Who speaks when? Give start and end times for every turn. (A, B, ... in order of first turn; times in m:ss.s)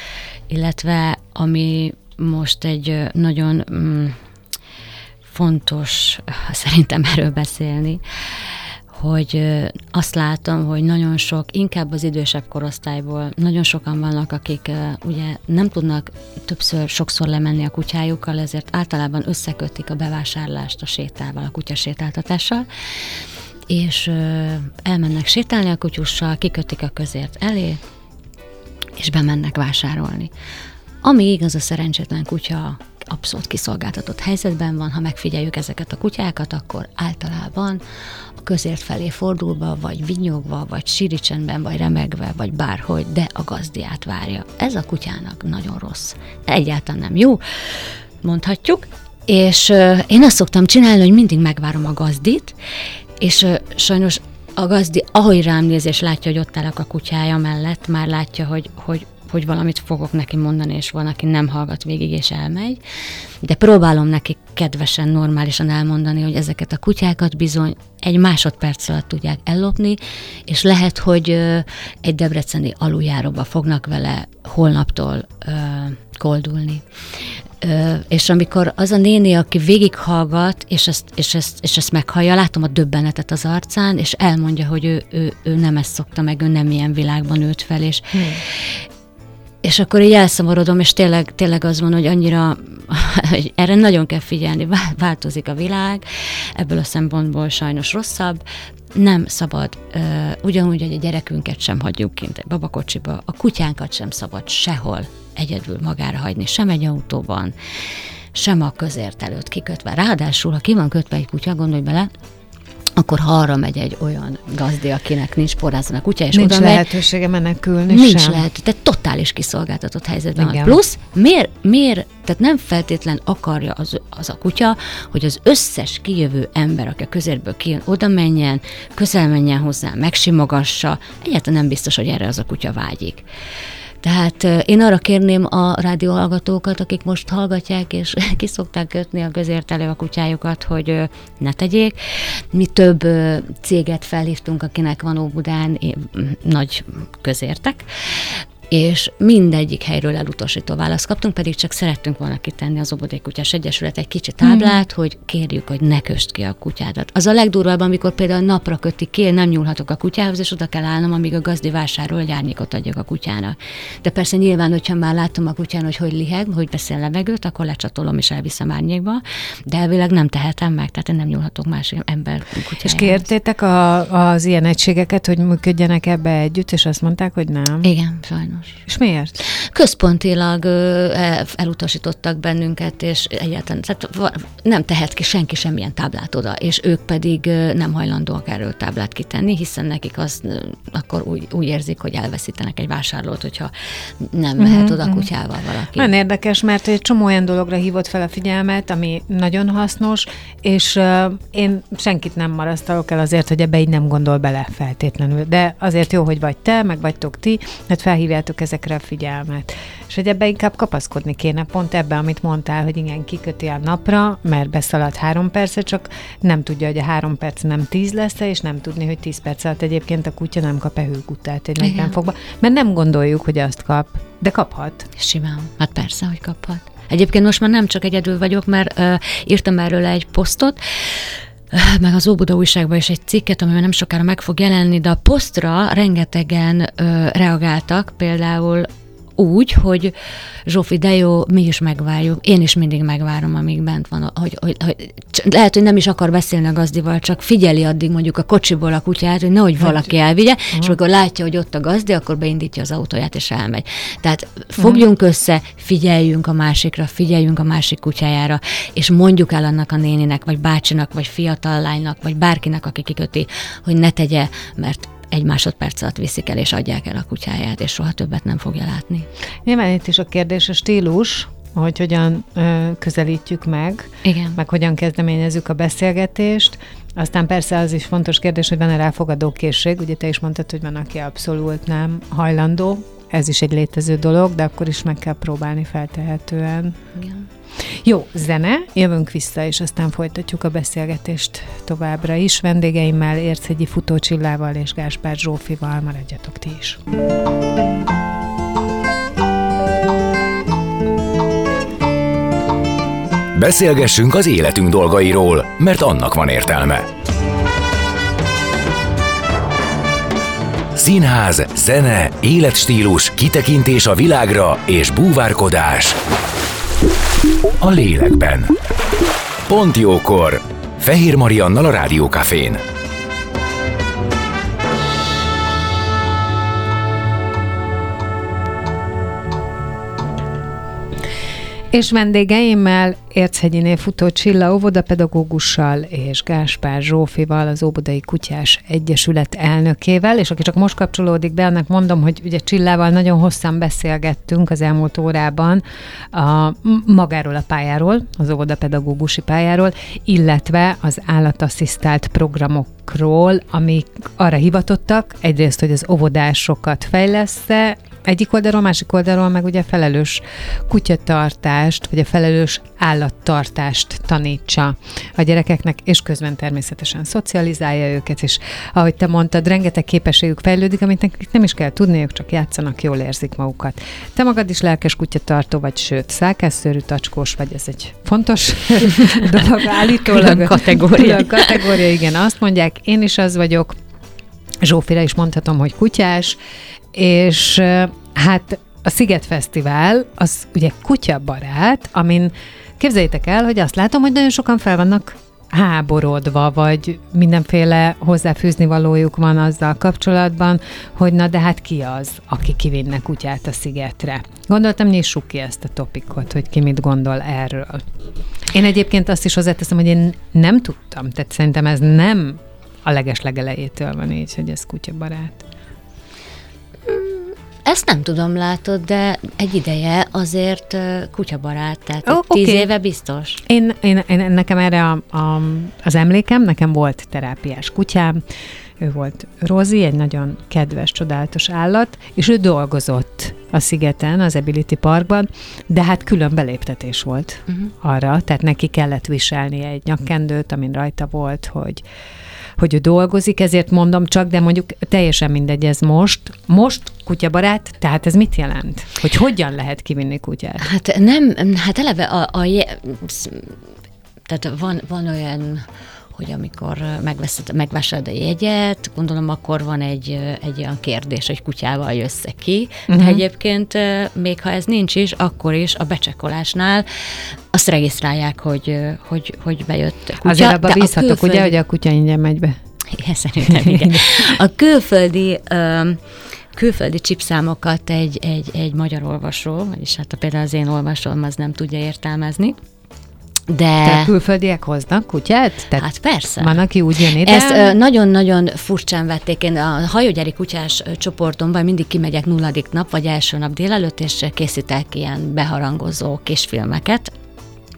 0:00.5-0:04.2 A
0:05.3-0:22.7 A
0:23.7-0:27.8 A
0:29.0-0:30.3 A
0:31.0-0:37.8 A
0:38.4-0:52.6 A
0:53.2-1:02.8 A
1:03.4-1:16.8 A
1:17.6-1:28.8 A
1:28.1-1:28.4 B
1:29.6-1:38.4 A
1:38.9-1:47.5 A
1:48.3-1:52.1 A
1:53.0-1:56.9 A
1:56.3-1:58.4 B
1:57.9-2:13.2 A
2:00.4-2:00.8 B
2:14.0-2:22.0 A
2:22.5-2:53.3 A
2:34.4-2:34.7 B
2:52.8-2:57.9 B
2:57.8-2:58.8 A
2:58.9-2:59.4 B
2:59.6-3:16.1 A
3:14.6-3:15.3 B
3:16.0-3:45.1 B
3:41.8-3:42.1 A
3:45.2-4:00.1 A
4:00.7-4:29.3 A
4:14.8-4:15.0 B
4:29.6-4:47.1 B
4:34.2-4:34.6 A
4:47.8-4:57.0 B
5:03.6-5:07.1 C
5:11.0-5:16.2 C
5:17.8-5:18.8 C
5:19.7-5:22.8 C
5:31.9-6:23.9 B
6:20.3-6:21.8 A
6:24.8-6:26.6 B
6:27.1-6:48.0 B
6:48.7-6:55.6 B
6:57.1-7:03.6 A
7:02.3-7:02.9 B
7:03.7-7:08.4 B
7:09.0-7:22.0 B
7:22.8-7:30.9 B
7:30.8-7:33.8 A
7:34.5-7:47.1 A
7:43.1-7:43.4 B
7:47.7-7:51.7 A
7:50.4-7:52.8 B
7:53.1-7:56.2 A
7:53.6-7:54.4 B
7:56.7-8:02.8 A
8:03.7-8:04.3 A
8:04.0-8:06.0 B
8:06.0-8:06.8 A
8:06.6-8:07.9 B
8:07.4-8:17.3 A